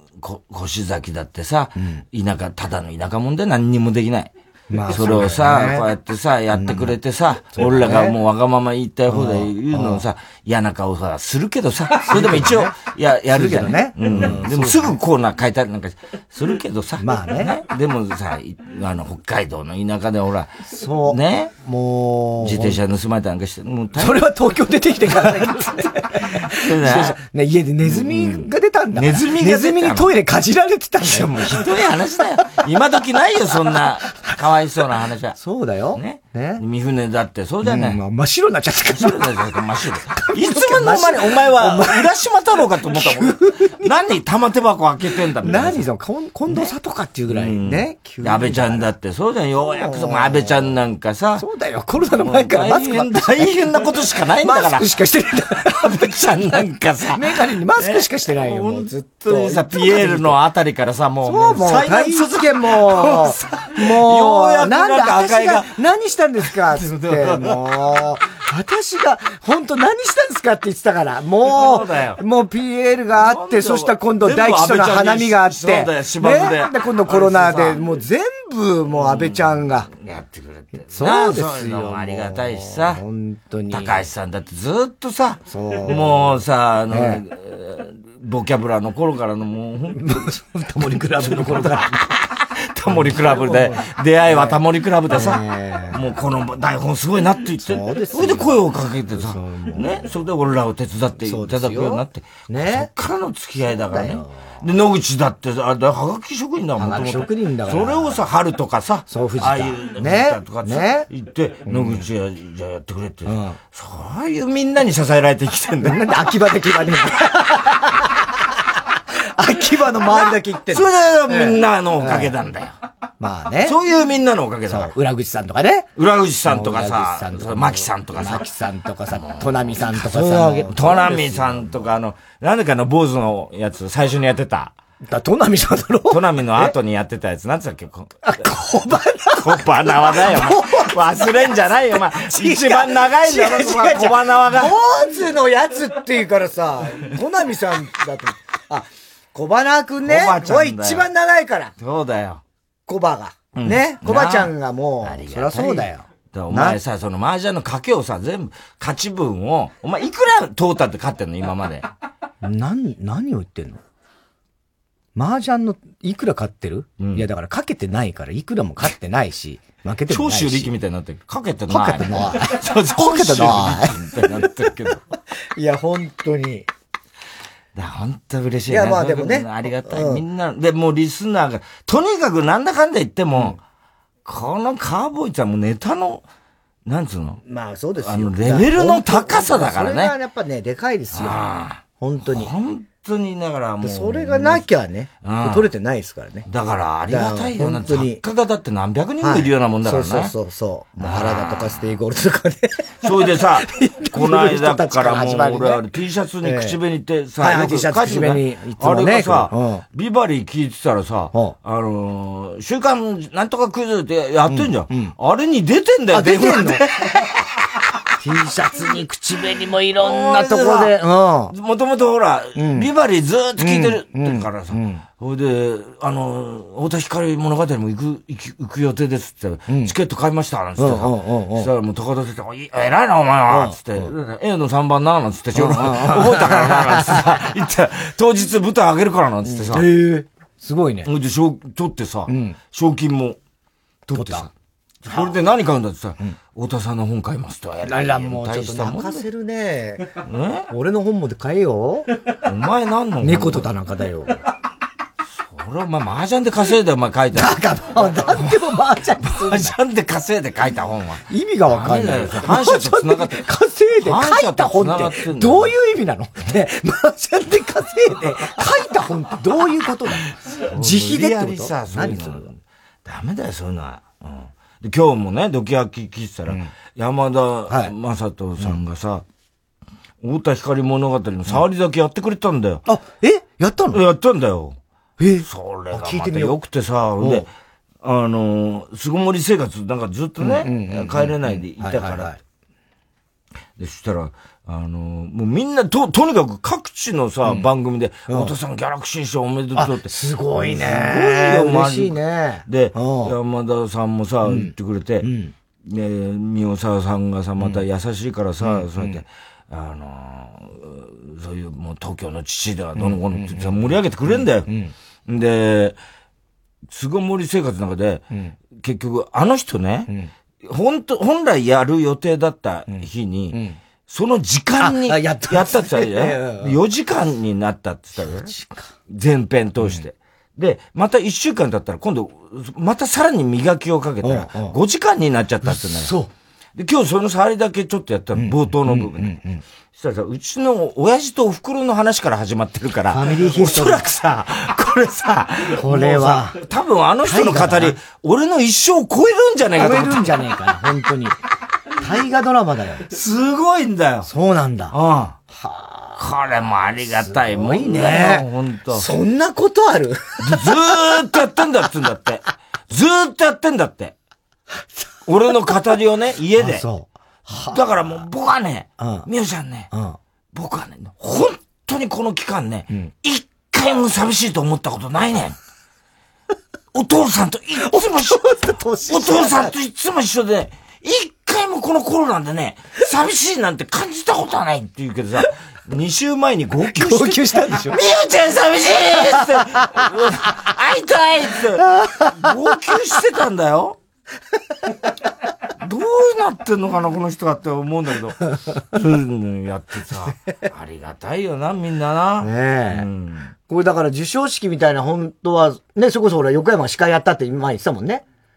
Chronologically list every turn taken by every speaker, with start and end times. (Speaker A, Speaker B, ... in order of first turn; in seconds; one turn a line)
Speaker A: 0.2-4.3
Speaker B: 1.8-2.0
Speaker B: 4.7-5.8
Speaker A: 4.9-21.5
Speaker B: 6.5-6.9
Speaker B: 7.5-8.2
Speaker B: 9.1-10.0
Speaker B: 12.0-12.7
Speaker B: 13.3-14.9
Speaker B: 17.0-17.6
Speaker B: 20.6-22.8
Speaker A: 22.4-24.2
Speaker B: 24.0-31.4
Speaker A: 26.4-27.2
Speaker A: 27.8-30.1
Speaker A: 31.0-35.4
Speaker B: 35.4-36.6
Speaker A: 35.9-38.0
Speaker B: 37.6-39.3
Speaker A: 38.9-45.8
Speaker B: 40.1-42.1
Speaker B: 42.9-43.9
Speaker B: 45.4-48.9
Speaker A: 46.5-46.7
Speaker A: 47.3-51.4
Speaker B: 49.8-50.7
Speaker B: 51.4-53.8
Speaker A: 52.1-54.9
Speaker B: 54.4-56.6
Speaker A: 55.8-65.7
Speaker B: 57.1-60.4
Speaker B: 61.2-79.9
Speaker A: 66.5-67.6
Speaker A: 71.4-72.2
Speaker A: 73.1-77.8
Speaker A: 78.9-83.0
Speaker B: 80.8-84.0
Speaker A: 83.7-90.3
Speaker B: 85.5-87.2
Speaker B: 89.9-92.2
Speaker A: 91.2-116.0
Speaker B: 92.9-96.0
Speaker B: 97.6-98.6
Speaker B: 99.1-100.0
Speaker B: 101.2-102.9
Speaker B: 103.9-104.6
Speaker B: 106.8-108.2
Speaker B: 109.1-111.1
Speaker B: 111.7-112.0
Speaker B: 113.2-113.6
Speaker B: 115.8-118.1
Speaker B: 119.3-122.3
Speaker A: 120.1-122.7
Speaker B: 123.2-123.8
Speaker A: 123.6-124.9
Speaker B: 124.7-125.9
Speaker A: 126.0-128.5
Speaker B: 126.4-131.8
Speaker A: 129.1-134.7
Speaker B: 135.0-136.7
Speaker A: 136.1-138.2
Speaker B: 138.2-151.7
Speaker A: 139.4-144.8
Speaker A: 150.0-151.1
Speaker A: 151.8-152.4
Speaker B: 152.9-156.8
Speaker A: 153.5-161.9
Speaker B: 162.4-163.8
Speaker B: 165.1-170.7
Speaker A: 167.0-167.2
Speaker A: 170.1-175.0
Speaker B: 171.7-174.2
Speaker B: 175.6-176.7
Speaker A: 177.7-183.6
Speaker B: 178.7-180.2
Speaker A: 184.2-186.2
Speaker A: 186.8-187.4
Speaker B: 187.4-191.4
Speaker A: 188.0-190.1
Speaker A: 191.1-194.6
Speaker B: 192.0-192.5
Speaker B: 193.8-196.5
Speaker A: 195.2-195.7
Speaker A: 196.4-200.3
Speaker B: 197.1-198.2
Speaker B: 199.2-205.8
Speaker A: 201.0-201.9
Speaker A: 203.0-217.3
Speaker B: 206.4-206.8
Speaker B: 207.4-209.8
Speaker B: 214.5-215.1
Speaker B: 216.1-216.8
Speaker B: 218.2-221.5
Speaker A: 220.0-221.0
Speaker A: 221.5-239.9
Speaker B: 222.6-222.9
Speaker B: 223.6-225.0
Speaker B: 229.7-229.9
Speaker B: 230.8-231.7
Speaker B: 233.5-234.1
Speaker B: 235.5-237.4
Speaker B: 239.4-241.1
Speaker A: 241.0-243.4
Speaker B: 242.3-242.6
Speaker A: 244.1-244.5
Speaker B: 244.1-244.5
Speaker A: 245.0-249.2
Speaker B: 247.9-250.1
Speaker A: 250.2-250.7
Speaker B: 250.7-252.1
Speaker A: 252.4-253.7
Speaker B: 253.2-254.4
Speaker A: 255.3-258.6
Speaker B: 257.3-259.8
Speaker A: 259.2-263.4
Speaker B: 261.3-272.5
Speaker A: 264.0-265.7
Speaker A: 270.5-279.2
Speaker A: 280.2-282.8
Speaker B: 282.9-284.0
Speaker A: 283.9-284.8
Speaker B: 285.2-286.6
Speaker A: 285.4-287.4
Speaker B: 287.2-287.4
Speaker A: 288.0-292.3
Speaker B: 290.4-292.4
Speaker A: 293.8-305.3
Speaker B: 298.3-298.5
Speaker B: 299.7-303.3
Speaker B: 304.4-305.5
Speaker A: 305.8-314.7
Speaker B: 308.6-309.2
Speaker B: 313.0-314.9
Speaker A: 315.2-316.0
Speaker A: 316.9-320.1
Speaker A: 320.6-328.5
Speaker B: 322.9-323.8
Speaker B: 324.8-326.8
Speaker B: 328.2-328.9
Speaker A: 329.1-336.1
Speaker B: 334.2-334.7
Speaker B: 335.6-336.3
Speaker A: 336.8-339.4
Speaker B: 338.4-339.6
Speaker A: 339.9-350.3
Speaker B: 343.1-344.0
Speaker B: 345.8-346.6
Speaker B: 347.2-348.0
Speaker B: 349.8-351.4
Speaker B: 352.0-353.1
Speaker A: 353.1-354.3
Speaker B: 354.2-354.9
Speaker A: 354.9-355.4
Speaker B: 355.5-356.2
Speaker A: 356.2-359.1
Speaker B: 357.2-360.7
Speaker A: 360.4-364.1
Speaker A: 365.2-366.8
Speaker B: 366.6-367.8
Speaker A: 367.7-369.9
Speaker B: 369.0-369.3
Speaker B: 369.9-370.2
Speaker A: 370.5-375.6
Speaker A: 376.9-378.4
Speaker B: 377.9-379.7
Speaker A: 379.1-394.0
Speaker B: 386.9-388.0
Speaker B: 389.8-390.1
Speaker B: 391.8-392.3
Speaker A: 395.8-398.4
Speaker A: 398.9-403.5
Speaker B: 402.4-403.1
Speaker B: 403.7-408.2